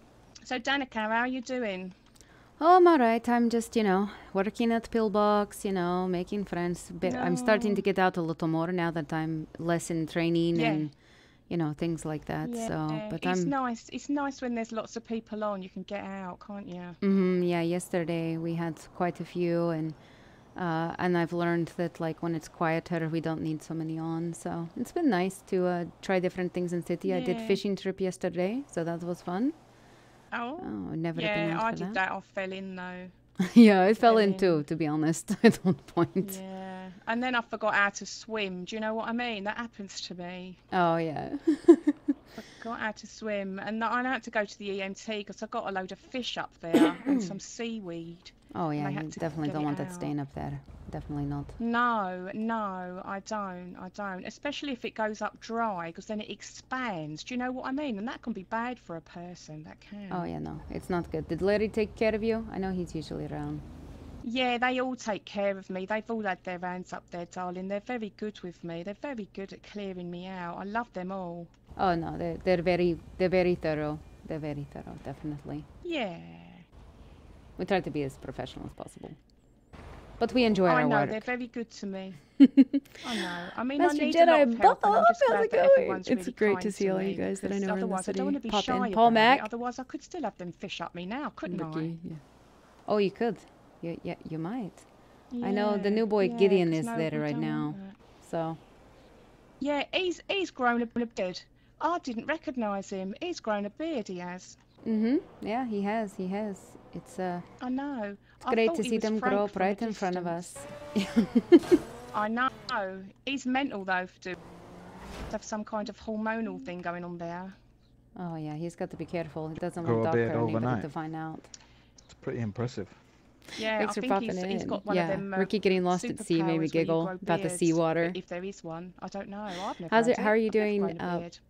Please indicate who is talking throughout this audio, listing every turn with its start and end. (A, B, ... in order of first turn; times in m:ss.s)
0:00.4-0:02.0 A
0:02.6-0:10.9 B
0:07.0-0:07.8 A
0:10.5-0:10.9 A
0:11.5-0:13.5 B
0:12.4-0:17.0 A
0:17.0-0:20.0 B
0:20.5-0:29.5 B
0:27.0-0:27.6 A
0:30.3-0:33.1 A
0:30.6-0:32.0 B
0:33.4-0:36.4 B
0:34.0-0:34.6 A
0:36.2-0:40.6 A
0:40.7-0:42.0 B
0:42.4-0:50.1 A
0:47.0-0:47.3 B
0:48.5-0:51.6 B
0:51.6-1:00.3 A
1:00.1-1:03.6 B
1:04.2-1:11.5 A
1:11.8-1:15.7 B
1:15.8-1:16.6 A
1:17.6-1:19.2 B
1:20.2-1:21.2 B
1:20.6-1:22.2 A
1:22.4-1:22.9 B
1:23.0-1:31.9 A
1:23.8-1:29.5 B
1:31.4-1:32.2 B
1:32.9-1:34.8 B
1:35.3-1:38.0 A
1:35.4-1:38.6 B
1:39.6-1:44.6 A
1:44.8-1:47.4 B
1:47.6-1:50.4 A
1:48.4-1:51.7 B
1:52.1-1:54.4 A
1:55.3-1:57.6 A
1:58.2-2:01.5 B
1:59.8-2:00.9 C
2:02.1-2:03.0 C
2:03.6-2:11.4 A
2:03.7-2:08.2 B
2:09.9-2:11.3 B